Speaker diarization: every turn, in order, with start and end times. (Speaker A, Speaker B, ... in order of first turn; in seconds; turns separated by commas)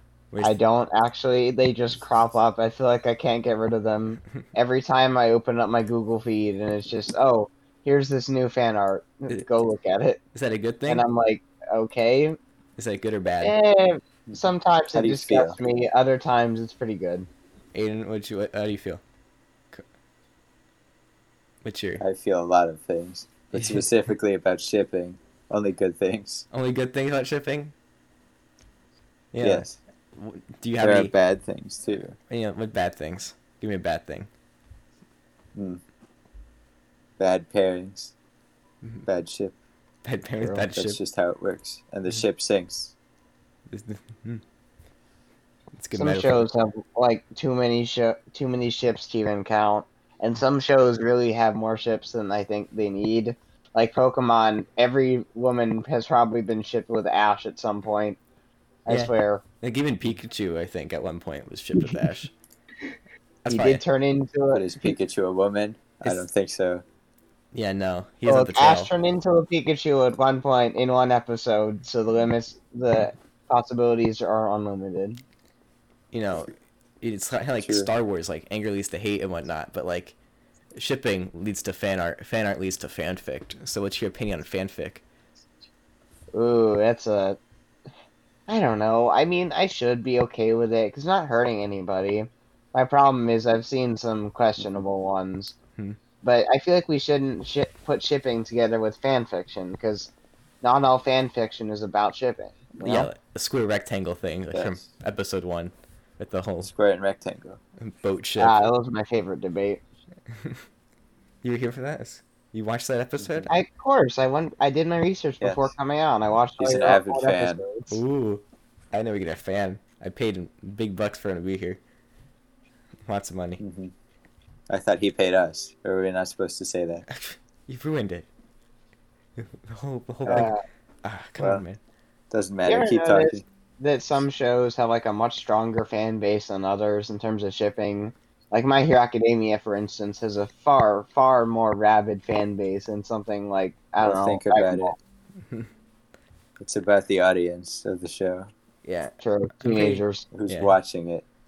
Speaker A: 0.4-10.2, Speaker B: 10.3-11.0, Speaker A: 10.9-12.4, Speaker B: 12.8-13.5, Speaker A: 13.4-17.3, Speaker C: 14.9-15.6, Speaker B: 17.7-19.0, Speaker B: 21.6-22.0, Speaker C: 22.0-26.4, Speaker B: 23.5-23.9, Speaker B: 26.5-27.7, Speaker B: 29.3-31.1, Speaker C: 29.4-29.8, Speaker C: 30.8-32.1, Speaker B: 32.3-34.3, Speaker C: 35.5-35.8, Speaker C: 37.2-38.1, Speaker C: 39.0-39.5, Speaker B: 40.0-41.0, Speaker C: 40.7-42.9, Speaker B: 43.7-44.4, Speaker B: 45.7-46.5, Speaker A: 45.9-58.2, Speaker A: 58.9-59.4, Speaker B: 58.9-62.3, Speaker B: 63.4-63.8, Speaker A: 63.5-64.9, Speaker C: 64.5-66.8, Speaker B: 67.5-68.9, Speaker A: 68.2-75.2, Speaker B: 76.1-80.1, Speaker C: 77.6-77.9, Speaker B: 80.7-85.0, Speaker A: 86.3-87.4, Speaker A: 88.5-95.5, Speaker A: 96.2-100.1, Speaker A: 100.6-103.1, Speaker B: 102.8-106.7, Speaker C: 104.5-104.8, Speaker C: 106.6-107.6, Speaker B: 107.8-108.6, Speaker A: 108.4-109.8, Speaker B: 111.4-113.5, Speaker C: 113.2-113.5, Speaker A: 113.5-118.0, Speaker C: 115.4-115.7, Speaker C: 116.6-117.6, Speaker B: 117.9-121.8, Speaker B: 123.1-123.6, Speaker C: 123.6-123.9, Speaker C: 124.7-127.0, Speaker B: 127.1-128.3, Speaker B: 129.4-131.8, Speaker C: 130.2-130.5, Speaker A: 130.3-130.6, Speaker C: 131.4-131.6, Speaker C: 132.3-133.4, Speaker A: 132.7-145.0, Speaker C: 144.0-144.9, Speaker C: 146.6-148.5, Speaker B: 148.8-150.7, Speaker A: 149.2-150.3, Speaker C: 150.3-151.2